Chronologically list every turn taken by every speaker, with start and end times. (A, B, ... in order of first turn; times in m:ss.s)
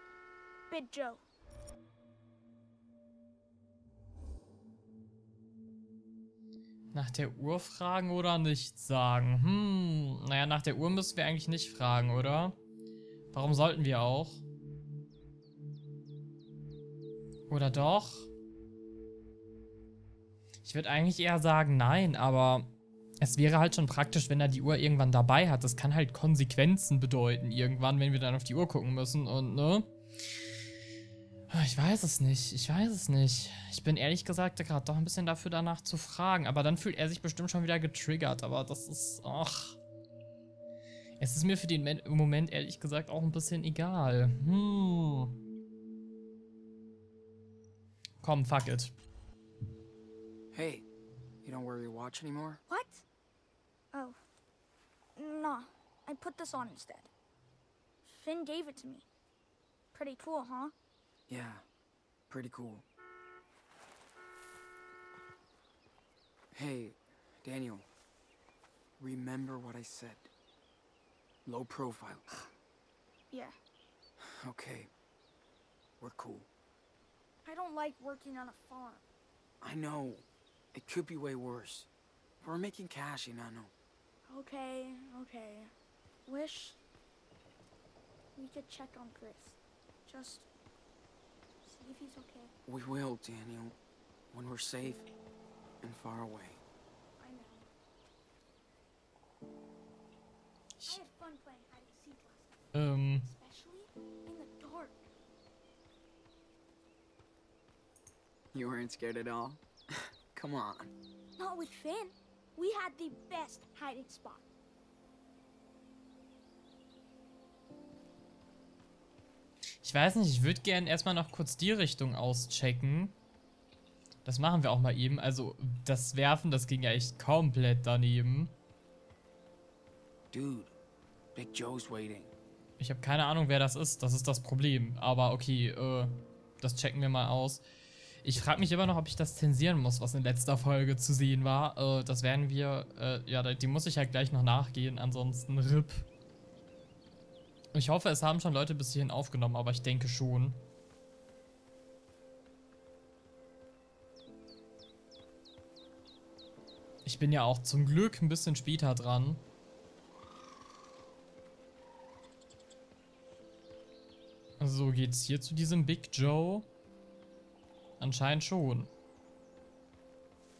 0:00.7-0:01.2 A
0:06.9-0:12.6 B
0:13.3-0:14.4 B
0:17.5-0:18.3 B
0:20.6-0:22.7 B
0:23.2-0:29.9 B
0:31.5-0:39.8 B
0:41.2-0:45.3 B
0:48.2-0:48.9 B
0:50.5-0:50.8 C
0:51.4-0:52.6 C
0:52.7-0:53.0 A
0:53.9-0:54.2 A
0:55.2-0:57.1 A
0:58.0-0:59.1 A
0:59.9-1:00.7 A
1:01.3-1:01.6 C
1:02.3-1:02.8 C
1:06.5-1:07.9 C
1:09.0-1:10.3 C
1:11.4-1:12.3 C
1:14.2-1:14.9 C
1:16.0-1:16.5 C
1:17.4-1:19.0 A
1:19.6-1:21.9 C
1:22.4-1:23.7 C
1:24.3-1:25.7 A
1:26.3-1:26.8 A
1:28.4-1:30.5 A
1:31.6-1:32.5 A
1:32.6-1:33.8 C
1:34.3-1:35.1 C
1:35.8-1:36.6 C
1:37.2-1:37.7 A
1:40.9-1:42.6 A
1:42.7-1:43.3 B
1:43.2-1:45.0 A
1:48.5-1:50.9 C
1:51.4-1:54.5 A
1:59.8-2:03.1 B
2:04.2-2:08.5 B
2:10.3-2:10.8 C
2:11.3-2:12.3 C
2:12.8-2:17.6 B
2:18.2-2:26.1 B
2:27.7-2:30.6 B
2:37.0-2:39.4 B
2:44.6-2:46.7 B
2:48.0-2:48.9 B